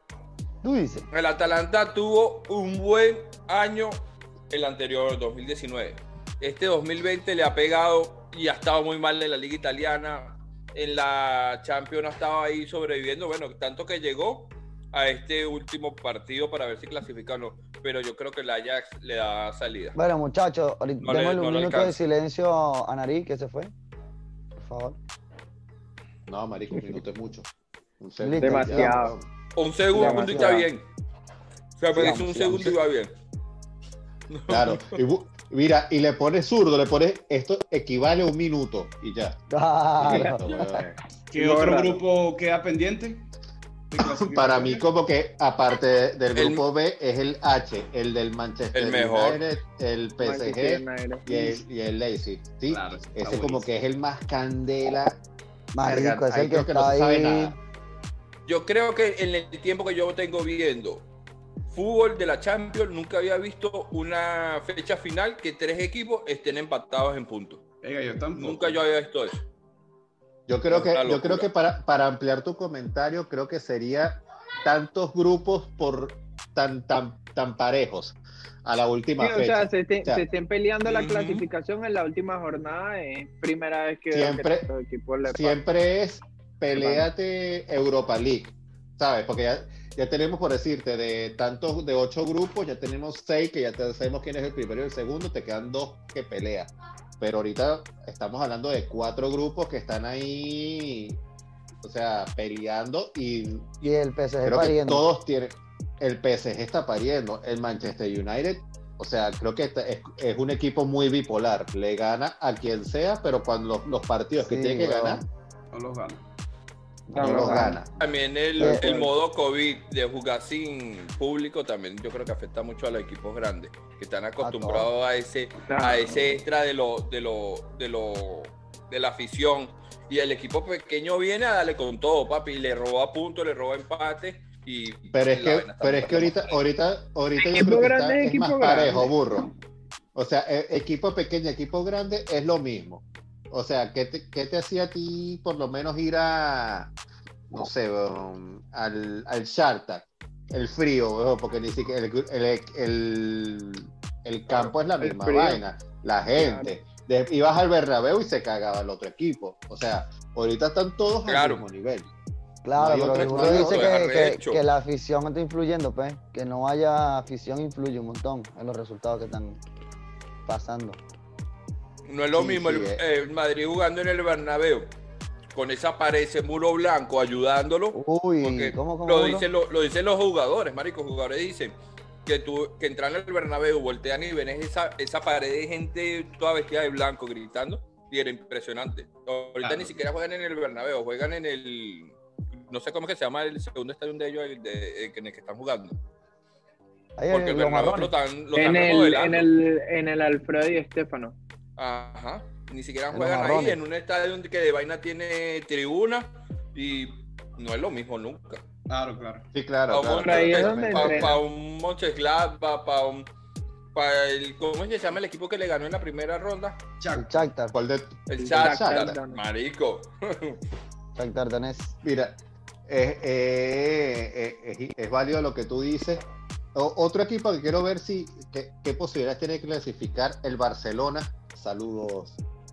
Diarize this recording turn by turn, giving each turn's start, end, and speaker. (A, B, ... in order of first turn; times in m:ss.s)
0:00.6-0:01.1 A
0:01.1-0:20.0 B
0:20.0-0:23.7 A
0:21.0-0:22.0 B
0:24.6-0:25.0 A
0:26.3-0:27.5 C
0:28.0-0:29.3 C
0:28.2-0:29.1 A
0:28.4-0:29.2 D
0:29.6-0:30.8 B
0:29.9-0:30.7 A
0:30.0-0:30.6 D
0:31.8-0:33.1 B
0:31.9-0:32.8 A
0:34.3-0:35.0 B
0:34.5-0:39.4 C
0:39.5-0:40.8 A
0:40.0-0:41.0 C
0:41.3-0:43.3 E
0:41.3-0:42.0 D
0:43.9-0:44.9 E
0:44.0-0:55.2 C
0:46.4-0:46.6 B
0:48.7-0:49.4 B
0:50.2-0:51.6 D
0:52.7-0:53.7 E
0:55.7-0:57.6 A
0:55.8-0:57.6 C
0:58.5-1:01.1 B
1:01.7-1:07.6 B
1:07.8-1:08.8 E
1:08.4-1:09.4 B
1:10.5-1:20.2 C
1:10.7-1:11.5 B
1:19.2-1:25.6 D
1:20.9-1:21.4 B
1:24.1-1:24.7 C
1:25.2-1:41.2 C
1:26.7-1:27.1 D
1:41.8-1:55.2 C
1:43.8-1:45.0 A
1:54.4-1:55.3 A
1:55.7-1:56.2 E
1:57.1-1:57.8 A
1:57.2-1:57.8 D
1:57.2-1:57.9 C
1:58.0-2:16.6 B
1:58.6-1:59.0 A
2:04.4-2:04.9 A
2:05.7-2:06.2 D
2:15.1-2:19.5 C
2:17.4-2:19.2 D
2:20.2-2:26.9 C
2:27.5-2:42.1 C
2:34.6-2:35.6 D
2:36.4-2:36.7 D
2:41.3-2:41.6 B
2:42.6-2:49.6 A
2:42.8-2:44.1 C
2:43.1-2:44.6 B
2:50.5-2:51.0 A
2:52.1-2:54.9 B
2:52.3-2:53.0 C
2:55.5-3:01.8 B
2:57.9-2:59.5 A
3:02.3-3:16.0 B
3:09.6-3:09.9 E
3:17.2-3:18.1 A
3:17.3-3:19.5 B
3:18.6-3:21.4 D
3:21.8-3:28.6 B
3:23.1-3:23.8 A
3:28.9-3:29.5 E
3:29.5-3:31.4 C
3:29.9-3:33.3 B
3:30.2-3:31.4 D
3:33.9-3:36.8 B
3:37.0-3:37.4 E
3:37.1-3:37.8 A
3:37.7-3:39.2 C
3:38.3-3:40.6 B
3:38.4-3:39.4 D
3:41.2-3:42.0 A
3:42.0-3:46.2 C
3:46.8-3:52.4 C